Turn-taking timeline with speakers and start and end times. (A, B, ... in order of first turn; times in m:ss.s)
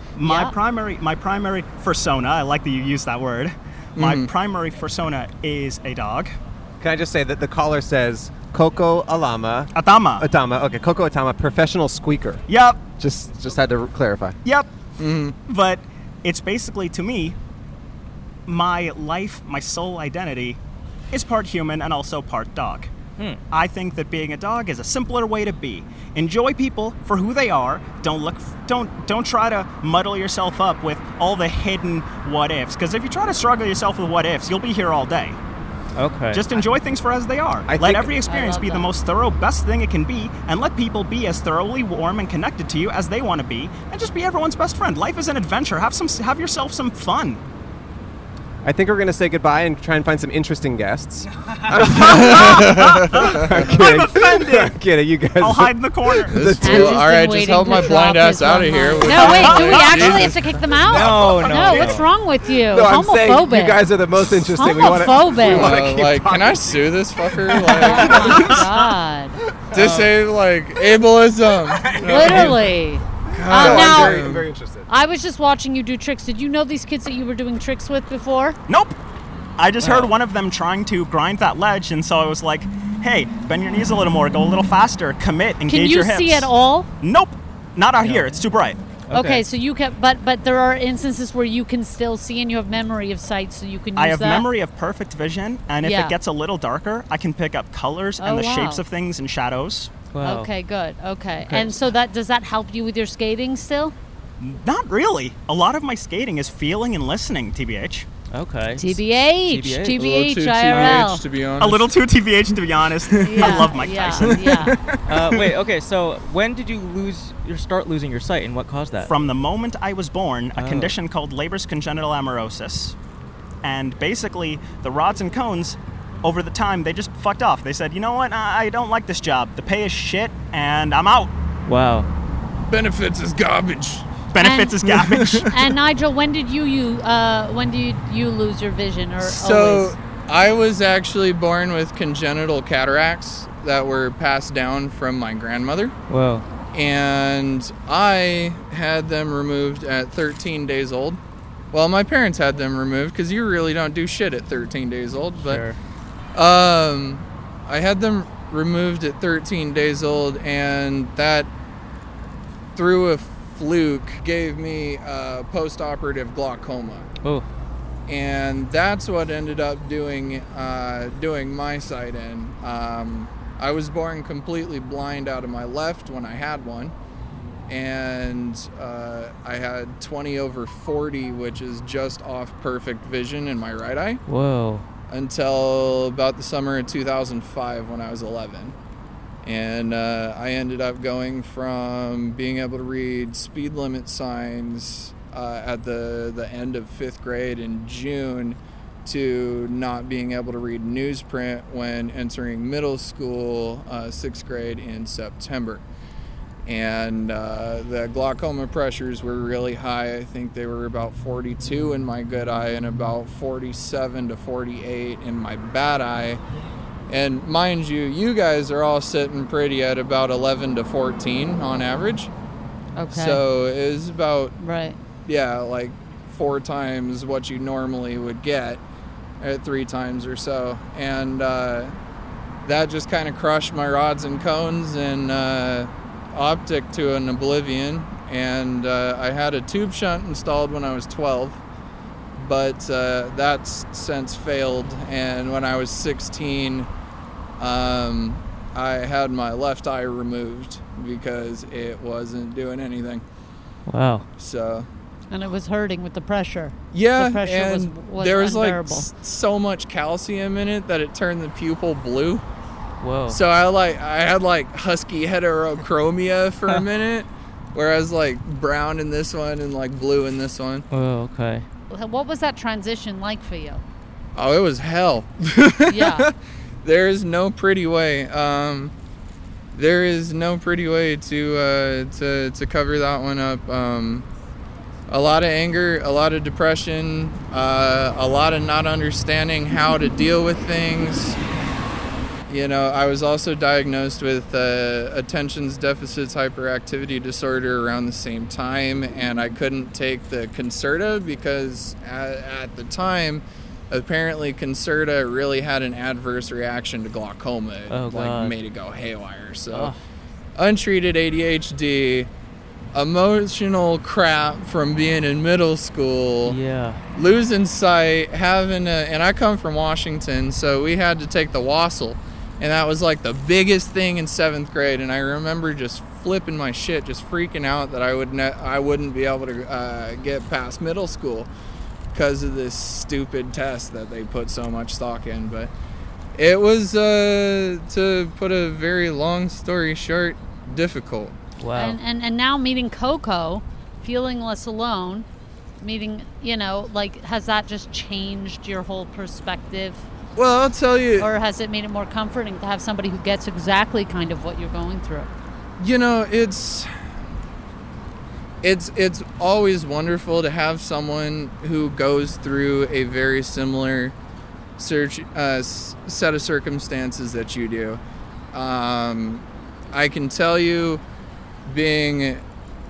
0:00.2-0:06.3 A
0:00.2-0:00.5 B
0:04.0-0:04.3 C
0:06.8-0:12.4 D
0:09.8-0:10.2 A
0:12.5-0:12.8 A
0:13.0-0:14.4 D
0:14.4-0:14.8 A
0:15.0-0:15.4 C
0:15.5-0:17.4 A
0:18.5-0:20.6 A
0:21.1-0:22.9 A
0:23.5-0:35.4 A
0:36.0-0:36.4 E
0:36.3-0:47.4 A
0:37.7-0:38.1 D
0:38.3-0:38.9 B
0:48.6-0:57.0 D
0:51.7-0:53.8 C
0:51.8-0:54.8 A
0:55.4-0:56.4 A
0:56.3-1:00.4 C
0:56.6-1:03.8 B
0:59.1-1:00.3 A
1:00.8-1:02.1 E
1:00.9-1:01.9 A
1:02.7-1:06.9 D
1:04.4-1:05.8 B
1:05.4-1:08.6 C
1:07.4-1:08.5 D
1:07.7-1:09.4 B
1:09.7-1:12.7 C
1:09.7-1:10.1 E
1:11.7-1:12.6 D
1:12.0-1:14.2 B
1:13.3-1:14.9 D
1:13.3-1:14.5 C
1:14.9-1:18.6 B
1:18.7-1:19.0 A
1:19.6-1:26.5 A
1:19.8-1:20.1 E
1:25.7-1:26.9 B
1:27.0-1:28.8 A
1:28.0-1:28.4 E
1:29.1-1:29.4 E
1:29.1-1:34.5 B
1:34.0-1:39.9 A
1:35.8-1:36.2 B
1:38.2-1:38.8 B
1:40.1-1:40.5 E
1:40.2-1:44.0 B
1:41.4-1:41.8 E
1:44.4-1:48.1 A
1:48.3-1:50.0 E
1:48.8-1:51.2 B
1:50.0-1:51.9 C
1:50.7-1:51.0 E
1:51.6-1:54.7 A
1:53.1-1:55.3 C
1:53.2-1:54.8 B
1:55.1-1:59.1 E
1:59.1-2:03.0 A
2:00.6-2:01.0 E
2:03.6-2:11.3 A
2:11.7-2:12.1 E
2:12.7-2:14.1 C
2:14.3-2:15.5 A
2:14.4-2:14.8 B
2:14.9-2:15.5 C
2:15.4-2:19.9 B
2:19.2-2:25.9 C
2:26.1-2:26.4 E
2:26.7-2:31.2 C
2:31.7-2:35.6 C
2:35.4-2:35.8 E
2:36.4-2:41.5 C
2:42.8-2:47.1 C
2:48.1-2:56.9 C
2:57.7-3:04.2 C
3:04.3-3:04.8 E
3:05.1-3:08.8 C
3:09.4-3:25.8 C
3:26.7-3:36.4 C
3:37.1-3:42.3 C
3:43.0-3:43.4 B
3:43.1-3:44.6 C
3:44.6-3:45.0 B
3:45.3-3:48.8 C
3:49.4-3:51.9 C
3:52.6-4:01.6 C
4:02.4-4:06.9 C
4:07.6-4:13.2 C
4:13.9-4:14.2 E
4:14.4-4:14.9 C
4:15.3-4:19.1 B
4:16.9-4:22.4 C
4:23.0-4:23.4 E
4:23.3-4:30.8 C
4:30.9-4:31.6 E
4:31.9-4:33.8 B
4:34.4-4:38.9 C
4:35.9-4:36.3 B
4:39.7-4:44.3 C
4:45.1-4:51.4 C
4:52.5-5:09.9 C
5:07.9-5:08.6 E
5:09.7-5:10.0 E
5:10.6-5:12.3 C
5:12.9-5:16.6 C
5:16.4-5:17.0 E
5:17.2-5:31.5 C
5:32.1-5:35.7 C
5:36.4-5:41.4 C
5:41.6-5:42.0 E
5:41.8-5:45.3 B
5:45.8-5:50.0 B
5:50.4-5:51.3 C
5:51.2-5:55.3 B
5:55.8-5:56.9 C
5:58.6-6:04.2 C
6:04.8-6:08.0 C
6:08.5-6:11.0 C
6:11.7-6:12.4 C